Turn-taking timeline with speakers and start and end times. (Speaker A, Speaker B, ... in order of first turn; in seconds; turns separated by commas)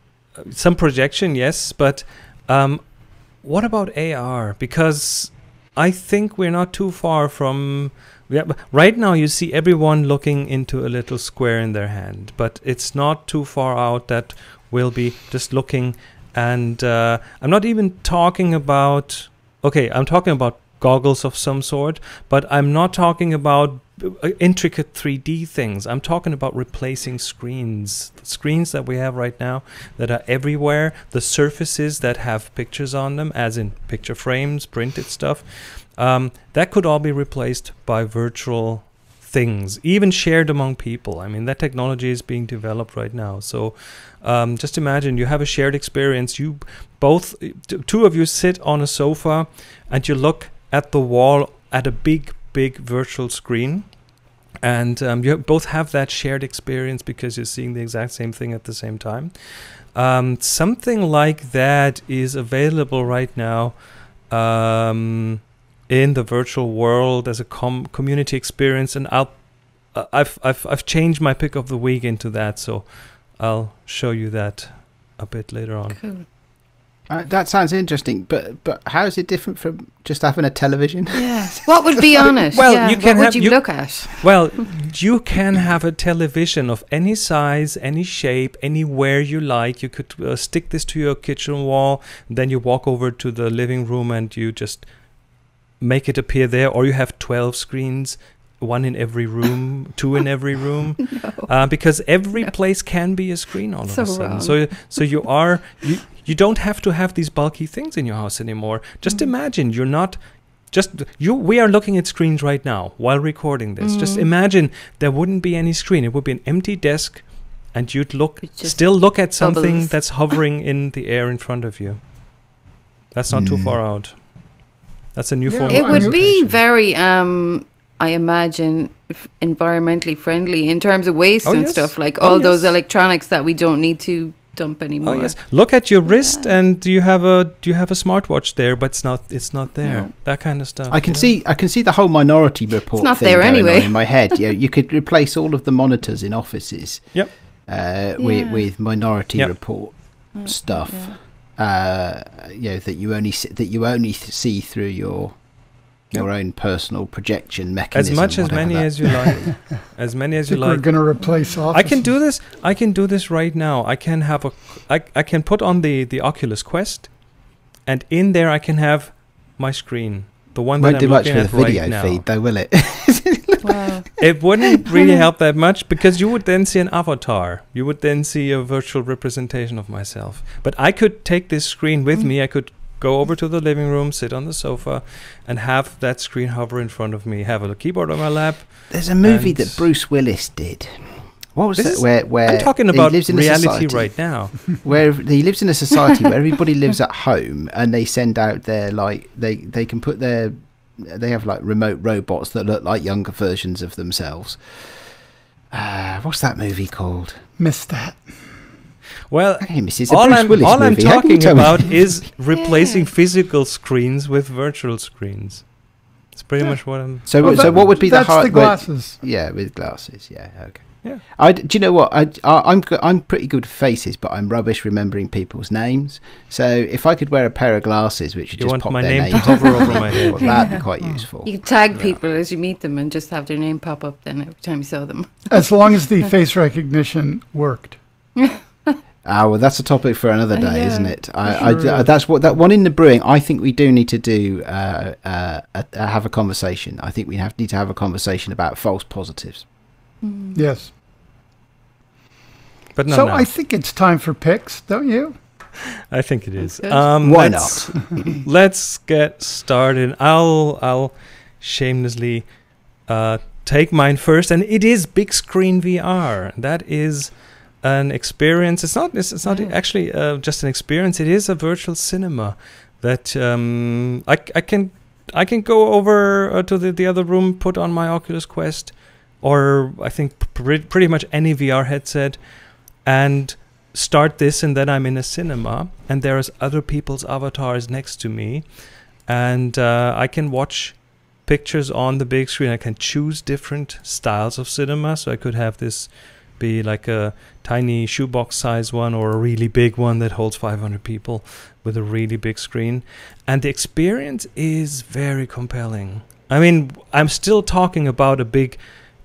Speaker A: 0.4-53.9, Speaker A: 54.6-76.0, Speaker B: 75.9-76.2, Speaker C: 77.1-82.4, Speaker B: 81.2-84.6, Speaker A: 82.5-94.9, Speaker A: 95.8-122.0, Speaker B: 101.1-101.5, Speaker B: 103.9-105.1, Speaker B: 113.8-114.3, Speaker B: 118.5-120.2, Speaker A: 123.1-124.2, Speaker C: 123.3-123.8, Speaker A: 125.1-126.5, Speaker D: 125.5-126.2, Speaker B: 125.7-135.4, Speaker A: 131.4-132.8, Speaker A: 135.0-141.3, Speaker B: 136.1-136.5, Speaker B: 139.8-140.1, Speaker C: 140.9-155.4, Speaker B: 143.0-144.3, Speaker B: 148.2-148.6, Speaker B: 150.4-151.2, Speaker C: 156.1-159.5, Speaker A: 157.9-160.9, Speaker D: 160.5-162.2, Speaker A: 161.7-167.2, Speaker A: 167.8-172.2, Speaker C: 170.8-173.9, Speaker B: 173.6-174.2, Speaker A: 174.2-189.9, Speaker C: 188.9-204.6, Speaker A: 191.8-194.6, Speaker C: 205.7-207.4, Speaker D: 207.6-208.3, Speaker A: 209.3-215.7, Speaker C: 209.6-212.1, Speaker B: 212.5-213.1, Speaker A: 216.3-217.9, Speaker C: 217.2-231.5, Speaker D: 217.4-219.2, Speaker A: 228.6-230.8, Speaker B: 229.3-229.7, Speaker B: 230.4-230.7, Speaker B: 231.4-235.7, Speaker D: 235.5-238.0, Speaker B: 238.3-239.0, Speaker C: 239.2-249.6, Speaker B: 240.5-241.7, Speaker D: 241.5-242.1, Speaker B: 250.2-250.6, Speaker D: 250.5-250.9, Speaker A: 252.9-253.5, Speaker D: 253.1-255.3, Speaker A: 256.1-308.8, Speaker B: 256.8-257.0, Speaker C: 257.2-257.9, Speaker B: 269.4-269.7